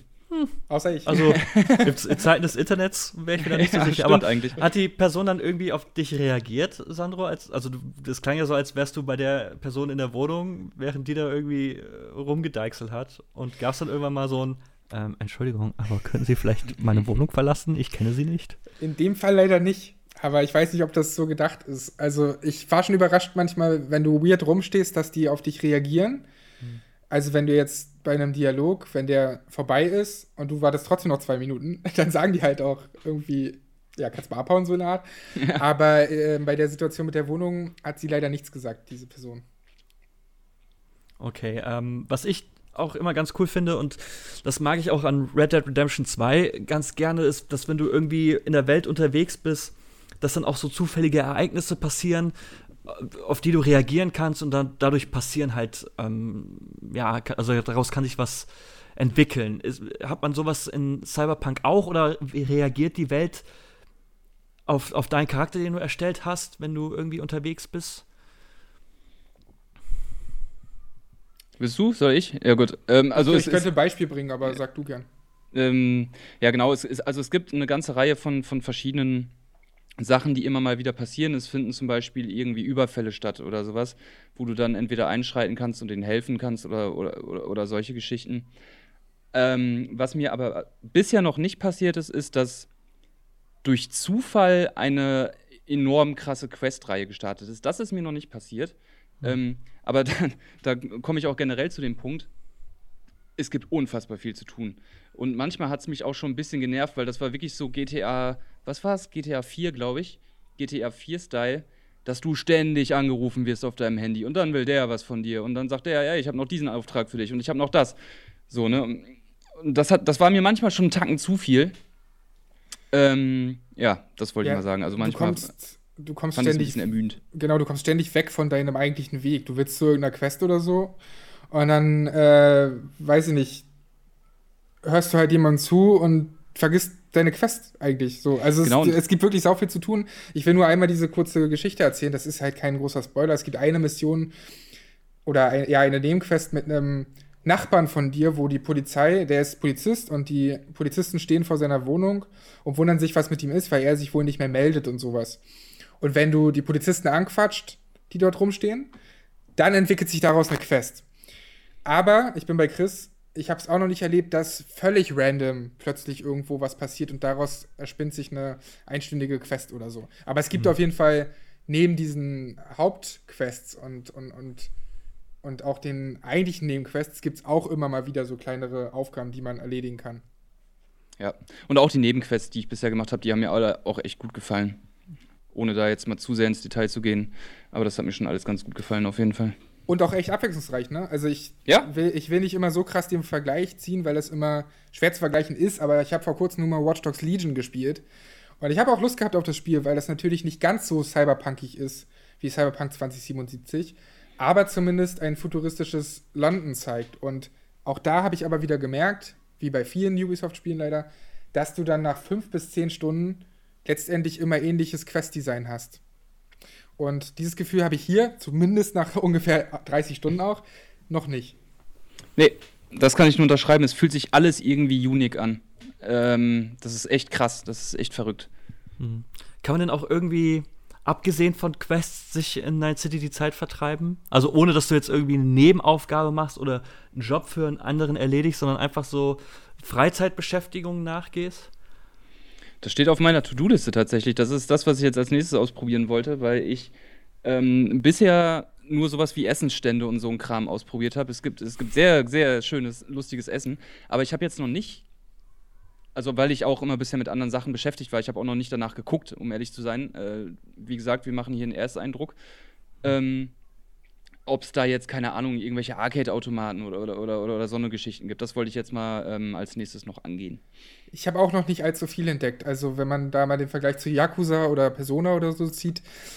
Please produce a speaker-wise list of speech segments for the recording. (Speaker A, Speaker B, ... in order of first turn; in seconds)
Speaker A: 0.7-1.9, 18.8-26.3, 27.1-39.4, 73.1-75.0, 124.4-131.0, 131.5-133.7, 134.8-144.3, 145.2-155.4, 156.0-158.9, 159.6-161.0, 161.8-174.7, 175.4-180.2, 189.9-198.0, 198.6-216.0, 217.0-221.6, 271.1-276.0
Speaker B: 1.1-18.6, 41.2-52.3, 52.8-63.4, 64.7-68.0, 229.0-241.7
Speaker C: 1.4-1.7, 3.4-4.6, 35.4-35.6, 71.6-73.7, 75.5-79.3, 80.0-88.5, 89.3-92.7, 93.6-102.3, 103.4-118.0, 118.5-121.7, 122.9-125.5, 126.3-127.2, 138.6-139.0, 181.2-184.8, 185.5-189.5, 222.3-228.5, 242.8-246.9, 247.4-255.0, 256.1-262.3, 263.0-263.5, 264.4-270.6